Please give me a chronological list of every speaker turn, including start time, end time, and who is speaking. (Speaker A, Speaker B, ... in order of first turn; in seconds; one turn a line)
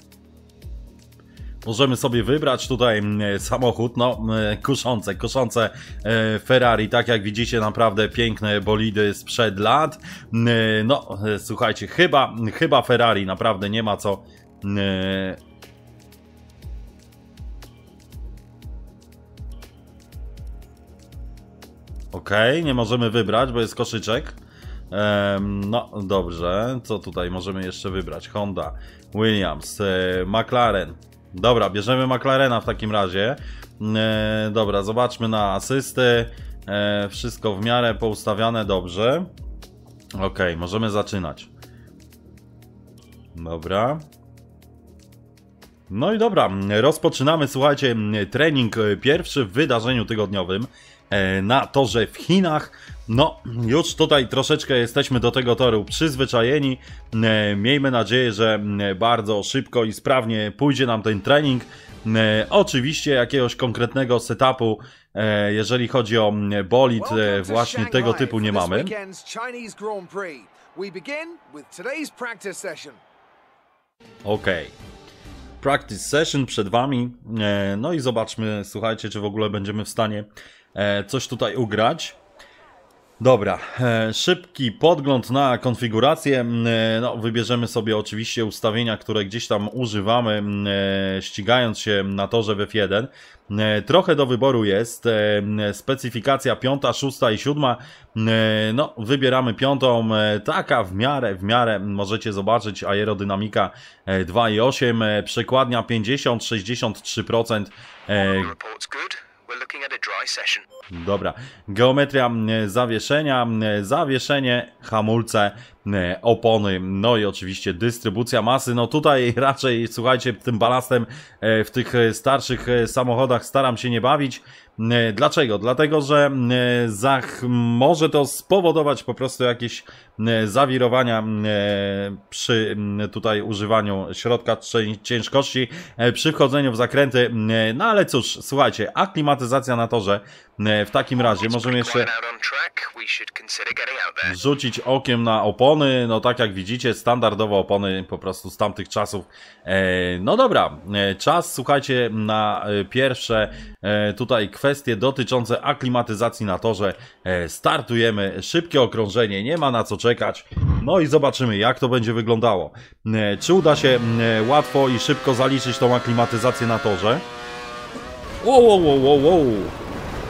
Speaker A: 1.6-15.4
Speaker A: 22.1-24.4
Speaker A: 24.9-39.3
Speaker A: 40.2-41.5
Speaker A: 43.3-44.0
Speaker A: 45.9-68.9
Speaker B: 67.0-73.0
Speaker A: 74.2-74.7
Speaker A: 75.6-82.2
Speaker A: 83.2-108.5
Speaker C: 108.2-110.7
Speaker A: 110.9-142.1
Speaker C: 141.2-144.3
Speaker A: 144.2-167.2
Speaker A: 168.4-169.8